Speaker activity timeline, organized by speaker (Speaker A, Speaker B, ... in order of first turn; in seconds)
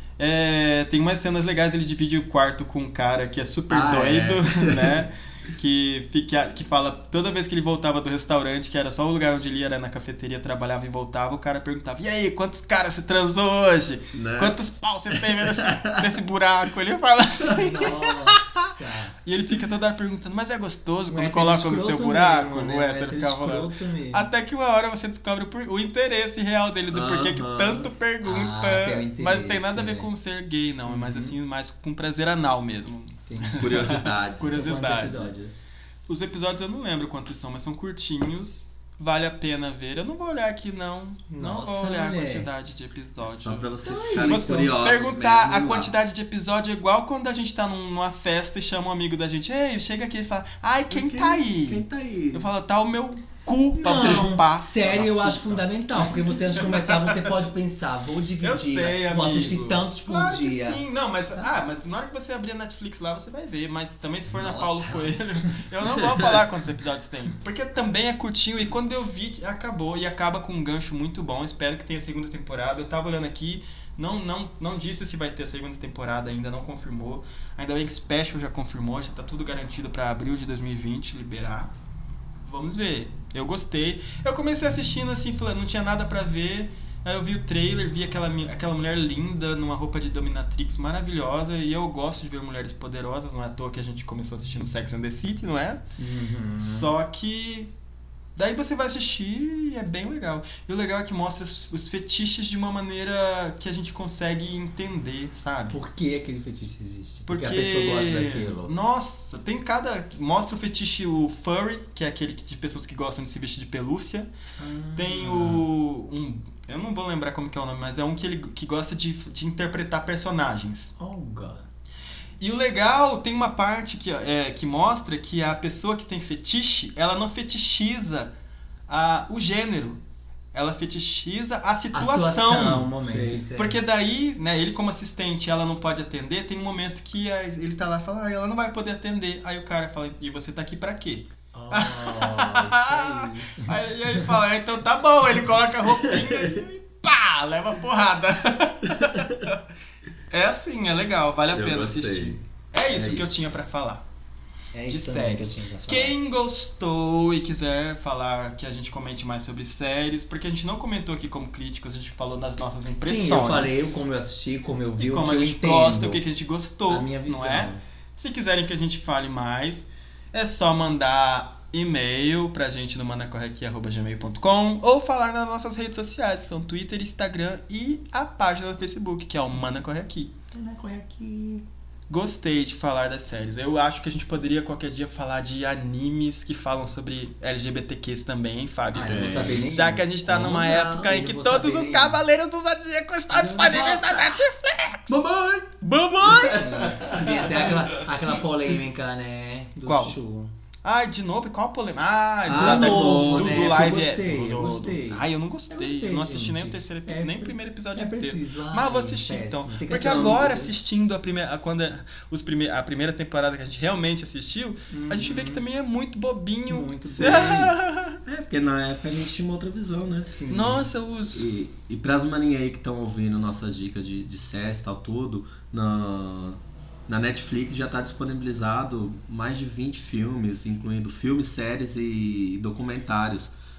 Speaker A: 0.2-18.7, 19.2-35.3, 36.1-57.4, 58.4-81.7, 82.4-95.8, 96.6-97.7, 98.3-105.8, 107.3-114.3, 115.0-120.9, 122.4-128.3, 128.9-130.0, 130.5-132.9, 133.6-149.6, 150.3-154.0, 154.9-164.0, 165.0-180.3, 182.1-195.2, 195.8-197.8, 199.8-200.2, 200.8-218.2, 220.5-221.5
Speaker B: 3.7-5.0, 14.1-14.6, 15.1-16.1, 26.9-27.9, 33.6-34.5, 43.2-45.9, 50.9-52.5, 133.0-133.5, 151.5-153.5, 189.1-189.6, 195.1-197.8, 202.4-204.0, 209.9-210.6, 217.2-217.7, 218.2-220.3, 221.3-233.5
Speaker C: 17.4-19.1, 21.1-24.3, 28.2-30.1, 30.9-31.3, 33.3-33.8, 34.5-35.6, 41.3-42.5, 43.8-44.7, 53.8-60.8, 64.3-66.3, 96.0-96.9, 105.7-108.7, 114.6-115.7, 121.0-121.7, 131.9-133.8, 141.5-144.2, 154.7-156.1, 163.0-166.2, 166.9-167.8, 180.5-181.6, 188.9-192.2, 193.3-194.3, 196.3-200.5, 202.5-210.7, 214.9-215.6, 216.7-217.7, 220.2-220.9